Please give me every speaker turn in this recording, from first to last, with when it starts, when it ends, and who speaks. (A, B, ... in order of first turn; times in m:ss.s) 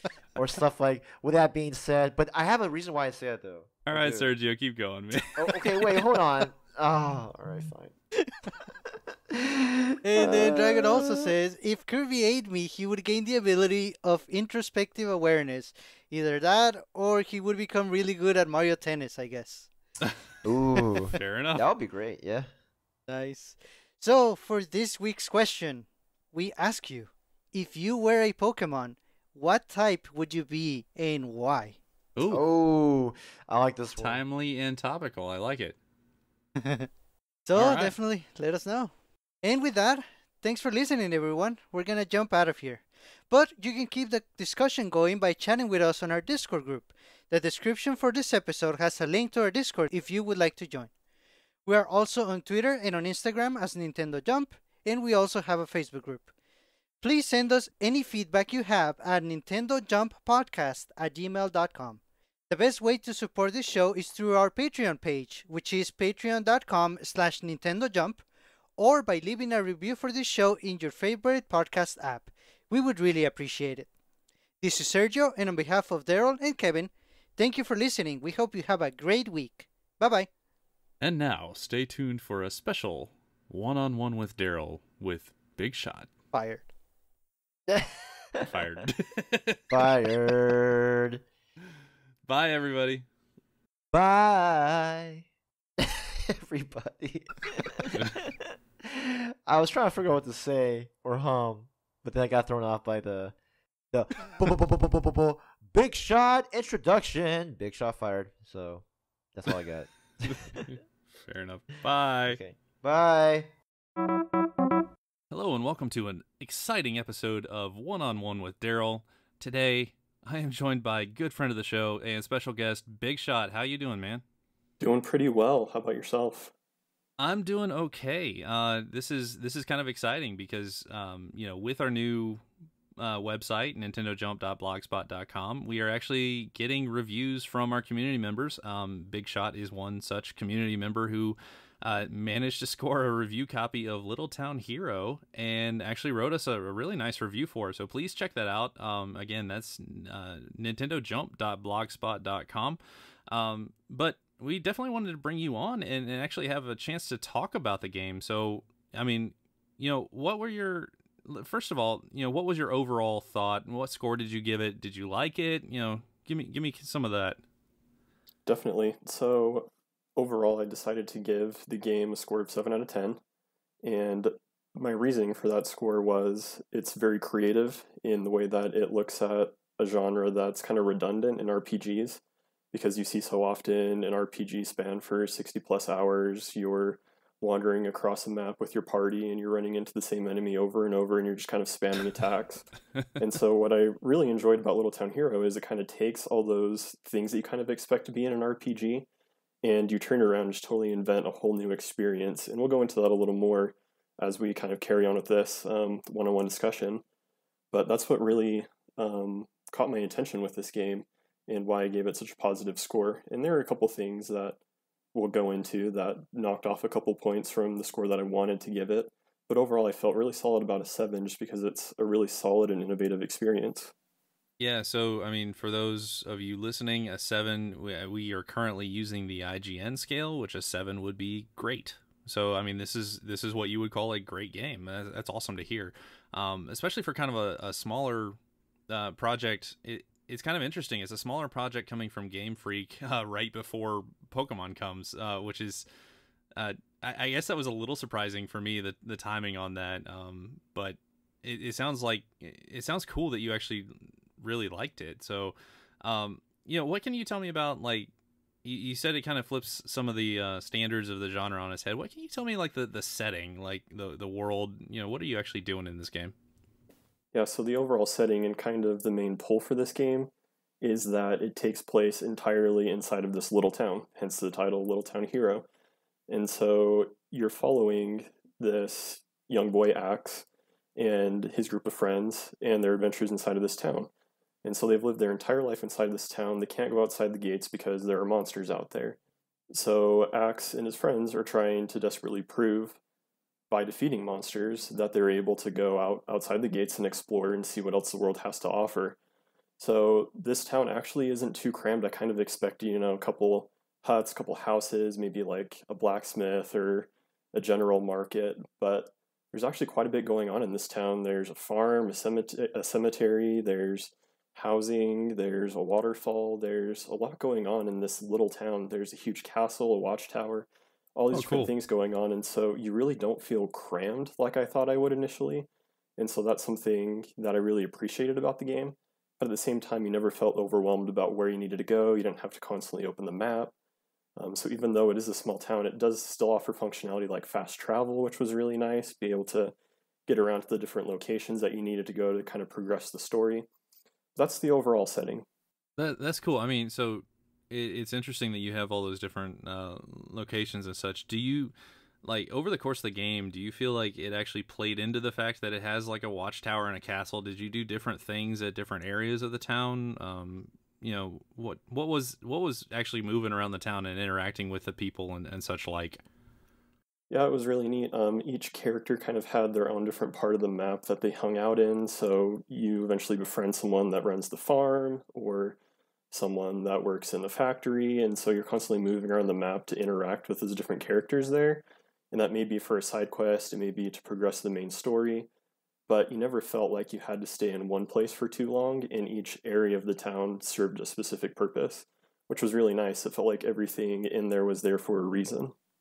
0:00.3-0:04.3 A
0:03.9-0:05.9 B
0:05.3-0:07.9 A
0:09.3-0:11.3 A
0:10.0-0:19.7 C
0:20.4-0:22.5 A
0:21.1-0:21.6 B
0:23.1-0:31.8 C
0:32.2-0:32.4 B
0:32.2-0:34.2 A
0:34.0-0:35.8 B
0:36.6-0:36.9 C
0:37.4-0:50.9 C
0:37.5-0:37.9 B
0:51.6-0:56.3 C
0:57.0-1:08.2 C
1:08.8-1:13.9 C
1:14.6-1:20.3 C
1:21.0-1:26.1 B
1:26.3-1:26.7 C
1:27.7-1:28.5 A
1:28.5-1:29.6 B
1:29.7-1:31.2 A
1:32.2-1:33.0 B
1:33.9-1:35.2 A
1:35.8-1:43.3 A
1:37.9-1:38.2 B
1:43.9-1:50.6 A
1:50.3-1:52.4 B
1:52.3-1:53.5 A
1:55.3-2:04.2 B
2:04.8-2:06.5 D
2:07.2-2:12.4 B
2:13.0-2:47.4 B
2:48.4-2:53.2 D
2:53.8-3:02.2 D
3:02.7-3:19.1 D
3:19.6-3:27.0 D
3:27.7-3:34.6 D
3:35.1-3:43.9 D
3:44.6-3:58.4 B
3:58.9-4:05.8 B
4:06.6-4:18.1 B
4:18.6-4:26.3 B
4:27.3-4:30.3 D
4:30.8-4:35.6 D
4:36.3-4:44.1 D
4:44.6-4:49.2 D
4:49.7-4:53.0 D
4:53.7-4:59.2 D
4:59.8-5:33.7 D
5:21.3-5:21.7 B
5:34.4-5:39.7 D
5:40.3-5:43.6 D
5:44.4-5:45.4 D
5:46.0-5:51.7 B
5:52.2-6:06.2 B
6:07.3-6:15.8 D
6:16.3-6:25.5 D
6:26.1-6:35.7 D